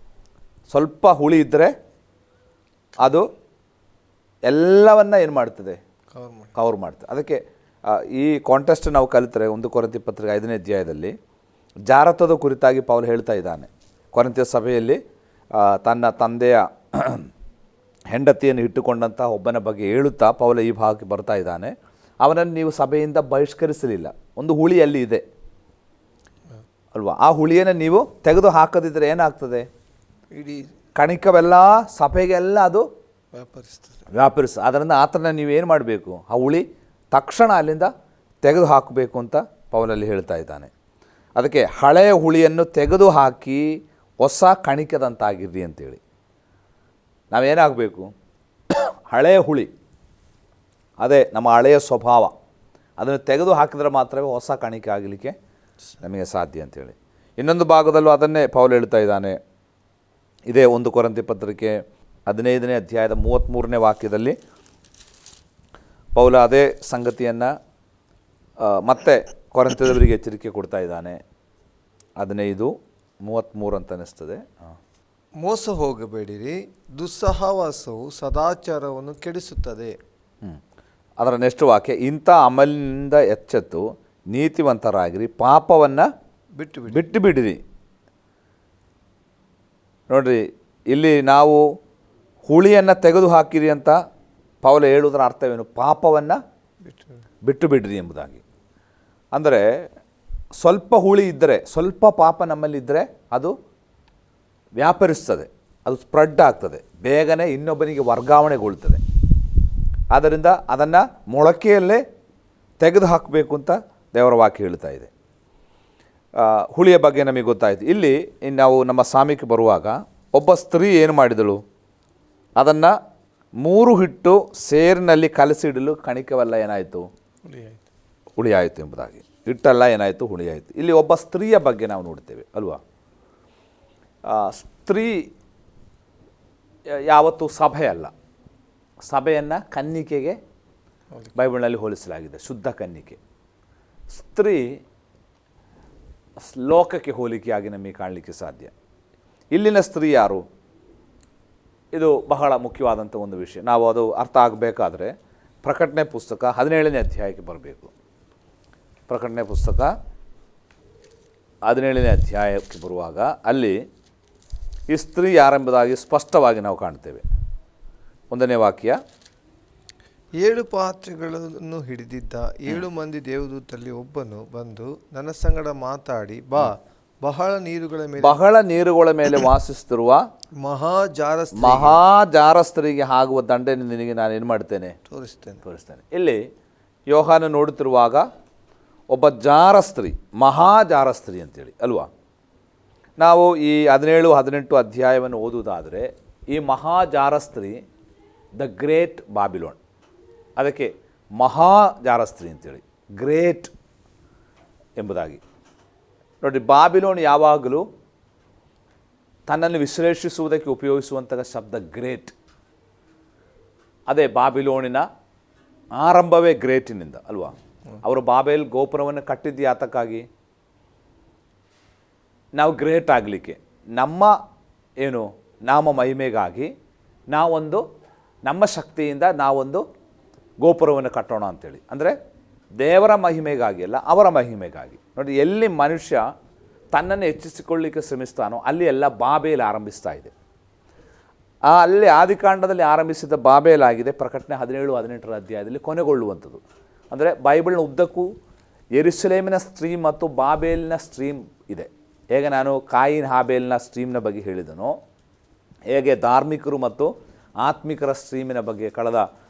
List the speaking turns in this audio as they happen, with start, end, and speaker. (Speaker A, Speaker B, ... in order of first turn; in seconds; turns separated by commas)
Speaker A: 0.7-1.7, Speaker B: 3.0-3.2, Speaker A: 3.0-3.3, Speaker A: 4.5-5.8, Speaker B: 6.1-6.5, Speaker A: 6.5-11.1, Speaker A: 11.9-15.0, Speaker A: 15.5-17.3, Speaker A: 18.1-25.2, Speaker A: 26.9-29.7, Speaker B: 30.3-30.7, Speaker A: 31.0-32.9, Speaker B: 33.3-34.1, Speaker A: 34.1-37.9, Speaker A: 38.4-40.7, Speaker A: 41.4-46.0, Speaker A: 47.3-48.1, Speaker A: 49.1-49.7, Speaker A: 51.0-52.3, Speaker A: 53.0-55.3, Speaker A: 56.0-59.4, Speaker A: 60.5-64.4, Speaker A: 66.1-67.5, Speaker A: 68.6-71.2, Speaker A: 72.2-72.7, Speaker A: 73.2-74.7, Speaker B: 75.4-80.0, Speaker A: 81.2-86.1, Speaker B: 86.6-87.1, Speaker A: 86.9-87.6, Speaker A: 90.1-91.6, Speaker A: 92.5-94.0, Speaker A: 94.6-96.4, Speaker B: 96.8-97.2, Speaker A: 97.4-98.4, Speaker A: 99.3-99.7, Speaker A: 100.6-103.5, Speaker A: 104.8-109.0, Speaker A: 110.1-112.0, Speaker A: 112.8-115.1, Speaker A: 116.4-121.6, Speaker A: 122.6-122.9, Speaker A: 123.6-127.1, Speaker B: 127.5-127.8, Speaker A: 128.4-132.8, Speaker A: 134.3-135.3, Speaker A: 136.9-138.1, Speaker A: 139.0-140.4, Speaker A: 141.3-143.2, Speaker A: 144.1-144.8, Speaker A: 146.4-148.7, Speaker A: 149.5-150.4, Speaker A: 151.9-155.1, Speaker A: 155.6-157.9, Speaker A: 159.1-159.9, Speaker A: 161.7-163.8, Speaker A: 164.9-167.2, Speaker A: 168.3-169.0, Speaker B: 170.4-178.4, Speaker A: 178.2-180.2, Speaker B: 180.6-182.0, Speaker A: 181.5-184.9, Speaker B: 185.1-185.6, Speaker A: 185.6-186.4, Speaker A: 187.1-188.2, Speaker A: 189.1-192.1, Speaker A: 193.2-197.8, Speaker A: 198.6-199.8, Speaker A: 200.6-203.7, Speaker A: 205.0-205.4, Speaker A: 206.4-207.8, Speaker A: 209.5-212.3, Speaker A: 214.1-215.1, Speaker A: 216.0-220.2, Speaker A: 222.6-224.3, Speaker A: 225.0-226.7, Speaker A: 227.3-227.8, Speaker A: 228.4-229.8, Speaker A: 230.6-232.1, Speaker A: 232.8-236.2, Speaker A: 236.9-240.3, Speaker A: 241.7-248.3, Speaker A: 249.0-254.9, Speaker A: 255.9-259.2